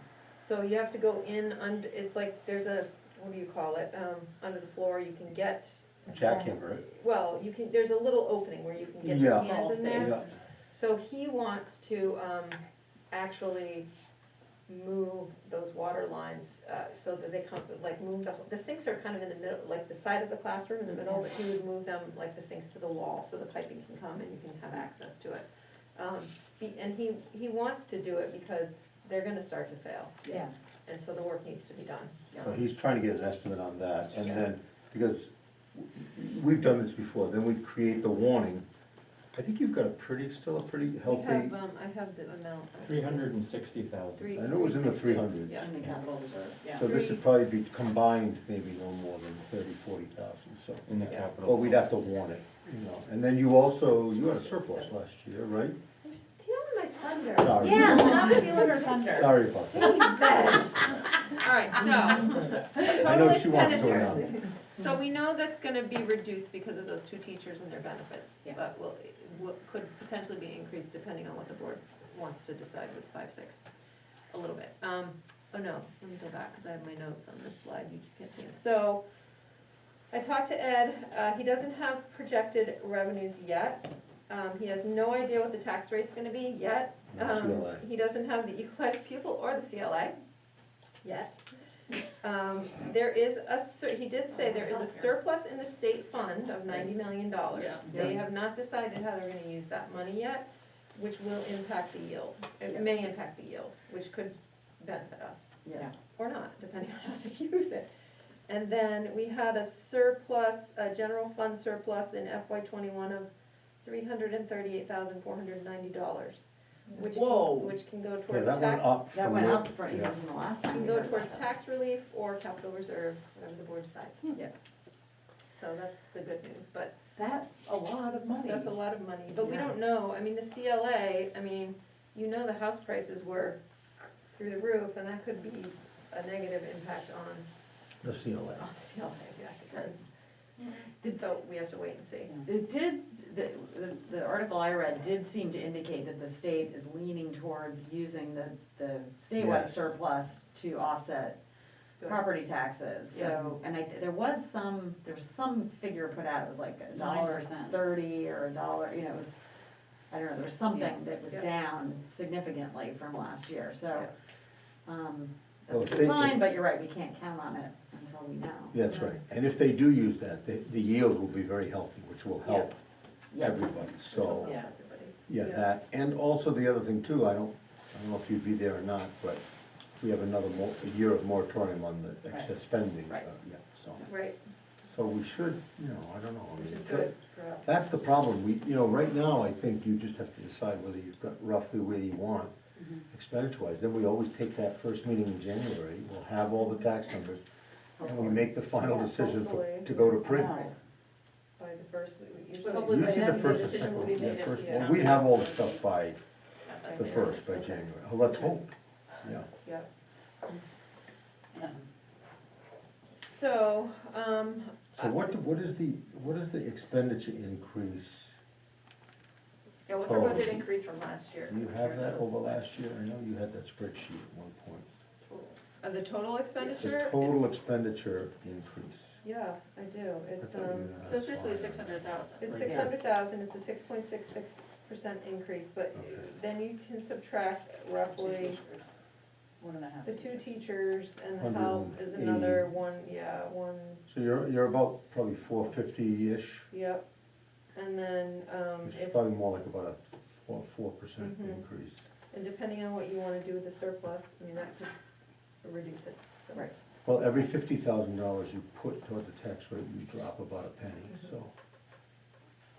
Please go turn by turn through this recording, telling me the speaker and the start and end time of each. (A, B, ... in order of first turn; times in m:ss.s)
0:00.4-0:12.6 A
0:06.1-0:06.8 B
0:09.0-0:10.2 B
0:09.2-0:10.3 C
0:13.1-0:13.9 A
0:14.7-0:30.3 A
0:30.8-0:32.2 A
0:32.4-0:38.6 B
0:39.3-0:41.6 B
0:41.0-0:43.3 A
0:42.8-0:44.4 D
0:44.2-0:45.7 A
0:44.3-0:45.7 B
0:45.0-0:46.0 D
0:45.5-0:46.8 E
0:46.7-0:55.8 B
0:46.7-0:47.2 A
0:50.9-0:51.9 D
0:54.3-0:54.9 A
0:56.0-1:13.6 A
0:57.4-1:00.0 B
0:57.6-0:59.3 E
0:57.9-0:59.3 C
1:02.8-1:04.4 B
1:14.3-1:19.0 A
1:20.1-1:30.2 A
1:27.1-1:27.8 B
1:31.0-1:31.4 A
1:32.2-1:47.9 A
1:34.3-1:35.1 C
1:37.6-1:38.0 C
1:37.9-1:38.2 E
1:45.6-1:45.9 E
1:48.5-1:53.3 A
1:53.8-1:59.1 A
1:57.1-1:57.7 C
1:58.3-2:00.1 B
1:59.1-2:01.4 E
2:00.7-2:04.4 A
2:05.6-2:06.9 A
2:07.2-2:08.7 C
2:08.4-2:13.6 A
2:14.3-2:17.4 A
2:18.0-2:18.6 B
2:18.6-2:20.1 A
2:21.0-2:22.4 A
2:22.4-2:31.4 E
2:29.4-2:29.9 B
2:32.0-2:39.4 E
2:33.1-2:33.5 C
2:36.9-2:37.7 C
2:40.1-2:44.1 E
2:44.8-2:48.8 E
2:45.7-2:46.4 B
2:48.7-2:52.8 B
2:53.3-2:53.7 E
2:53.4-2:54.5 B
2:54.0-2:55.6 A
2:54.4-2:54.7 C
2:55.3-2:59.4 B
3:00.0-3:04.1 B
3:04.0-3:04.4 A
3:04.8-3:07.1 B
3:06.6-3:07.7 A
3:07.6-3:12.5 B
3:13.1-3:17.4 B
3:18.0-3:20.6 B
3:18.0-3:18.3 C
3:18.8-3:20.7 A
3:20.2-3:20.7 C
3:21.6-3:25.0 A
3:22.6-3:25.8 C
3:22.7-3:26.2 B
3:26.6-3:27.6 C
3:26.8-3:27.4 A
3:26.9-3:28.7 B
3:29.2-3:29.5 B
3:29.6-3:29.9 A
3:31.5-3:31.8 C
3:33.2-3:35.4 A
3:34.9-3:38.4 B
3:39.8-3:42.2 C
3:40.0-3:40.7 B
3:41.4-3:44.9 B
3:45.2-3:45.5 C
3:45.6-3:47.4 A
3:46.6-3:46.8 C
3:46.8-3:49.2 B
3:49.2-3:51.0 A
3:50.4-3:52.2 B
3:51.0-3:52.9 C
3:52.4-3:58.6 A
3:55.9-3:56.3 B
3:58.1-3:58.9 C
3:59.6-4:00.4 C
4:00.0-4:04.0 A
4:01.3-4:02.7 B
4:04.1-4:06.7 B
4:06.7-4:07.0 A
4:07.7-4:09.2 A
4:08.8-4:12.0 B
4:11.2-4:11.6 A
4:12.3-4:14.9 A
4:15.6-4:16.7 A
4:17.0-4:21.5 B